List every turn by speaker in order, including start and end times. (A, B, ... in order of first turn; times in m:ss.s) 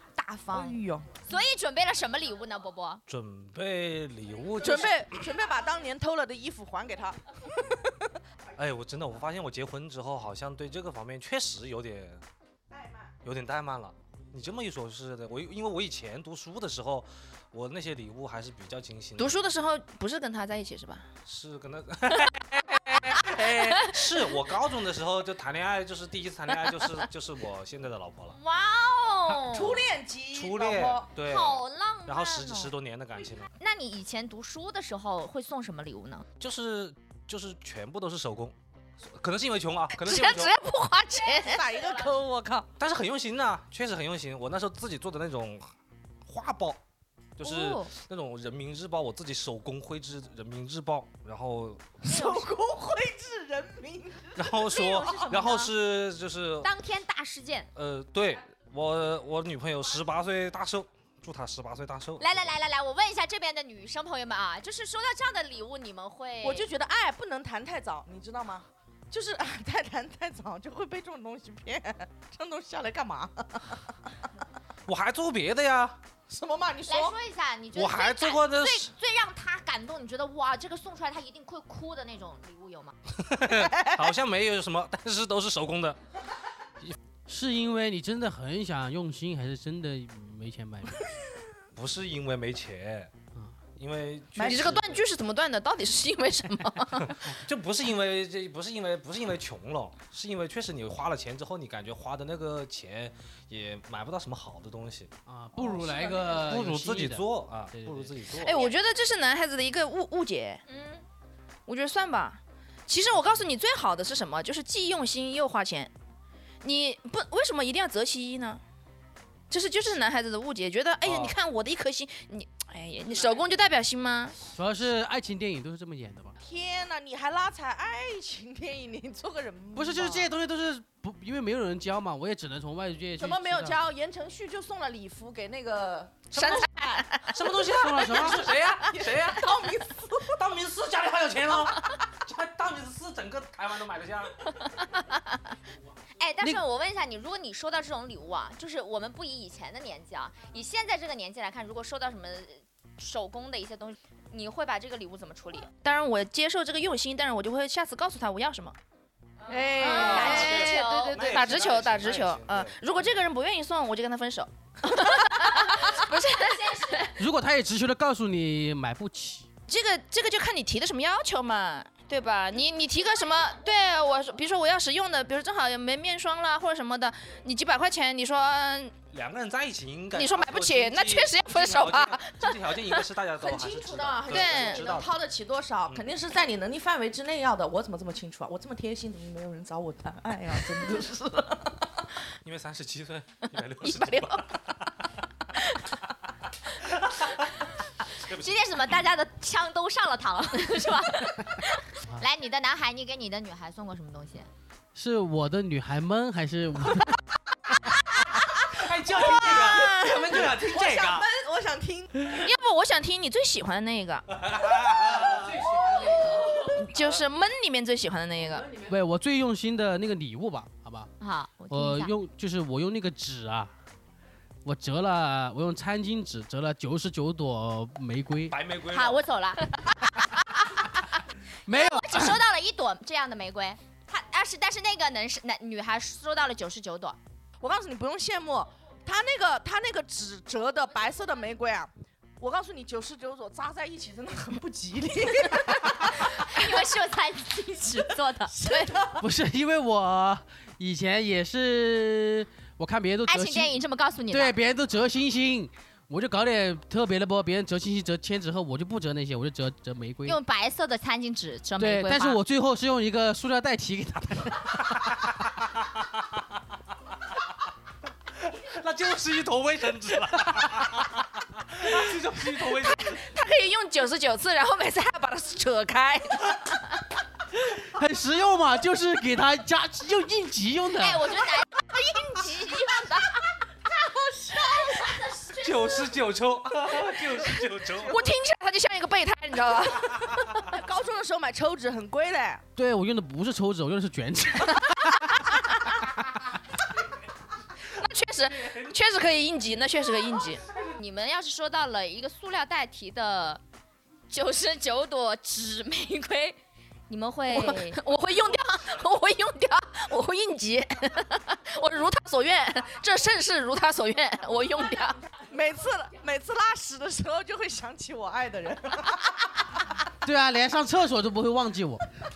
0:00.2-0:03.0 A
0:00.5-0:01.1 B
0:03.1-0:05.2 C
0:04.6-0:08.1 B
0:08.6-0:12.2 C
0:12.7-0:13.1 B
0:13.2-0:19.4 C
0:19.2-0:21.1 D
0:21.2-0:28.4 C
0:28.3-0:29.9 A
0:29.4-0:31.0 B
0:30.3-0:33.5 C
0:31.2-0:32.7 A
0:33.6-0:36.2 A
0:36.4-0:40.5 C
0:39.9-0:41.7 D
0:41.4-0:42.7 B
0:42.8-0:46.8 C
0:47.4-0:52.0 C
0:47.4-0:47.9 A
0:52.0-0:55.2 B
0:52.0-0:52.5 A
0:54.3-0:56.7 C
0:54.6-0:55.7 A
0:56.6-0:57.7 A
0:57.7-1:02.5 C
1:02.2-1:06.7 A
1:06.4-1:13.9 B
1:14.9-1:16.0 C
1:16.3-1:17.2 B
1:16.9-1:22.9 A
1:17.7-1:18.9 C
1:23.1-1:26.0 C
1:23.5-1:24.0 B
1:27.3-1:31.0 E
1:31.7-1:33.1 C
1:33.8-1:35.0 C
1:34.4-1:37.3 D
1:37.1-1:45.1 C
1:45.3-1:48.2 E
1:45.7-1:46.3 B
1:46.4-1:48.6 C
1:48.4-1:50.6 D
1:50.6-1:51.0 A
1:51.7-1:55.9 D
1:56.6-1:58.6 D
1:59.5-2:04.4 D
2:01.0-2:01.3 C
2:04.5-2:06.3 E
2:06.4-2:10.3 B
2:09.8-2:13.8 E
2:13.2-2:17.0 B
2:16.4-2:17.4 D
2:17.3-2:19.7 C
2:17.6-2:18.5 E
2:18.6-2:20.4 B
2:20.2-2:24.4 C
2:26.2-2:35.7 A
2:35.8-2:38.8 D
2:39.5-2:40.8 B
2:39.5-2:41.5 A
2:39.8-2:47.1 D
2:40.1-2:42.8 C
2:46.4-2:47.1 A
2:47.2-2:49.5 E
2:49.7-2:58.9 D
2:59.1-3:05.1 C
3:00.1-3:03.0 D
3:03.4-3:12.1 B
3:04.3-3:04.8 D
3:12.4-3:14.9 C
3:13.8-3:14.5 D
3:16.6-3:17.5 C
3:18.1-3:18.6 C
3:18.2-3:24.5 A
3:24.9-3:27.2 E
3:28.2-3:32.3 B
3:28.6-3:31.3 C
3:32.3-3:34.3 D
3:34.3-3:35.6 C
3:35.6-3:36.2 E
3:36.5-3:38.7 D
3:38.6-3:41.1 E
3:41.2-3:42.1 A
3:41.7-3:43.7 E
3:44.6-3:48.6 E
3:48.5-3:49.2 C
3:48.9-3:49.8 A
3:51.7-3:52.4 E
3:51.7-3:57.2 A
3:57.6-4:06.4 B
4:06.2-4:08.6 A
4:08.5-4:09.2 B
4:08.6-4:08.9 D
4:09.2-4:20.4 E
4:13.2-4:14.5 A
4:20.2-4:22.4 A
4:21.8-4:25.3 E
4:28.3-4:33.2 C
4:32.6-4:37.0 D
4:37.6-4:41.3 E
4:41.0-4:41.8 A
4:41.8-4:43.4 D
4:43.8-4:45.4 B
4:45.5-4:48.2 C
4:48.1-4:50.6 D
4:50.6-4:52.6 B
4:52.8-4:55.4 E
4:57.9-5:00.6 D
5:01.0-5:03.6 A
5:04.3-5:06.6 A
5:07.1-5:08.0 A
5:07.5-5:15.2 D
5:15.4-5:19.9 B
5:20.2-5:22.1 E